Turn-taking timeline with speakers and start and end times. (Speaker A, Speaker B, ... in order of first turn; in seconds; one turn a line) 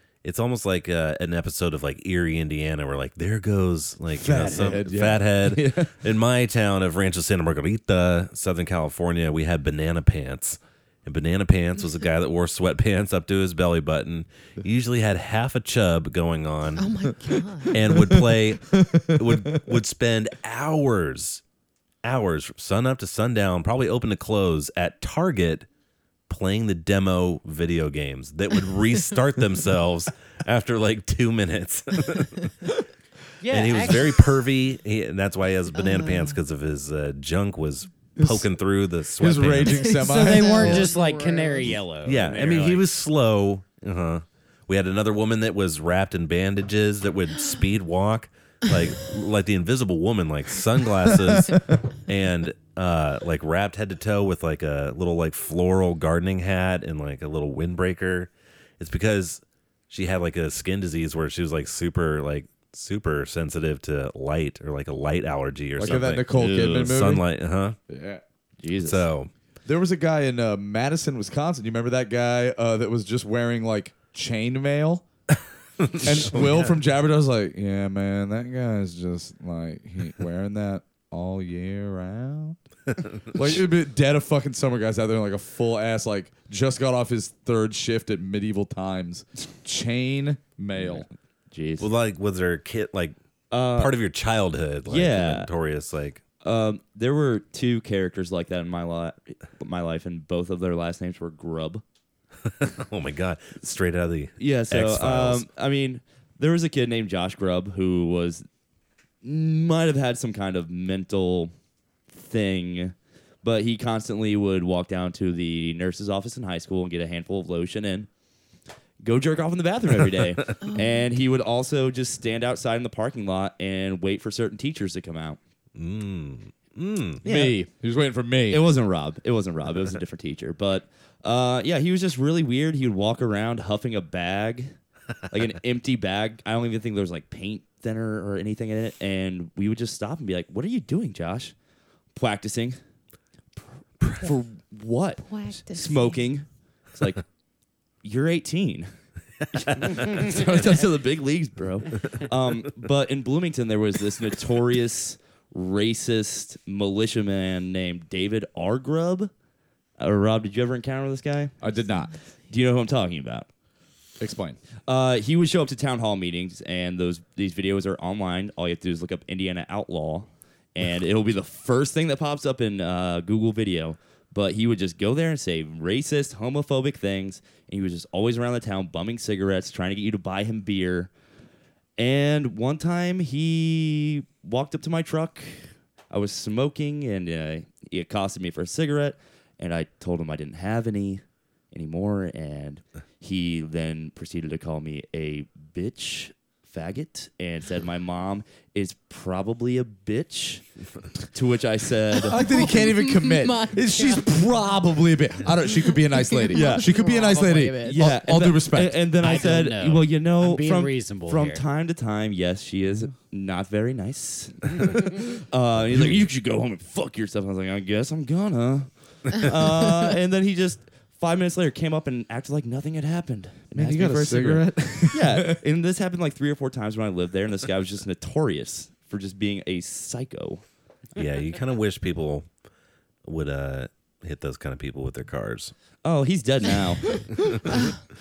Speaker A: 0.2-16.9
Speaker B: 4.2-5.2
Speaker C: 5.4-5.9
Speaker D: 16.8-17.8
Speaker A: 17.7-21.4
Speaker B: 17.8-19.5
Speaker A: 22.0-25.6
Speaker A: 26.3-32.5
Speaker E: 33.4-34.2
Speaker A: 33.5-40.0
Speaker D: 35.7-36.4
Speaker B: 38.2-38.5
Speaker B: 39.2-40.8
Speaker D: 39.8-41.8
Speaker E: 40.0-42.9
Speaker A: 42.0-67.8
Speaker B: 65.8-67.2
Speaker C: 65.8-67.0
Speaker B: 67.9-68.2
Speaker C: 68.6-69.1
Speaker A: 68.8-69.3
Speaker B: 69.6-75.0
Speaker A: 75.8-76.7
Speaker B: 76.0-82.6
Speaker B: 83.3-91.1
Speaker C: 90.8-91.9
Speaker A: 91.8-93.2
Speaker C: 93.5-94.0
Speaker A: 93.7-96.2
Speaker C: 94.9-95.5
Speaker C: 96.4-101.8
Speaker A: 102.6-105.4
Speaker C: 104.4-108.5
Speaker C: 109.2-111.5
Speaker C: 112.1-118.1
Speaker C: 119.0-125.4
Speaker D: 120.6-121.0
Speaker A: 125.8-127.2
Speaker C: 127.2-127.7
Speaker B: 127.2-128.6
Speaker C: 128.5-134.7
Speaker C: 135.3-141.5
Speaker C: 142.1-142.8
Speaker C: 144.0-147.2
Speaker D: 145.2-146.3
Speaker C: 148.0-148.9
Speaker C: 150.0-159.3
Speaker C: 160.0-161.5
Speaker B: 161.6-162.1
Speaker C: 162.5-163.5
Speaker B: 164.2-164.6
Speaker C: 164.8-181.1
Speaker C: 182.0-200.7
Speaker C: 201.3-202.4
Speaker D: 202.2-204.3
Speaker B: 202.2-209.0
Speaker D: 205.9-208.0
Speaker C: 206.5-207.0
Speaker C: 207.8-230.6
Speaker E: 209.2-211.6
Speaker B: 215.9-216.2
Speaker B: 223.7-225.6
Speaker A: 231.2-232.5
Speaker A: 233.2-235.7
Speaker C: 236.0-237.2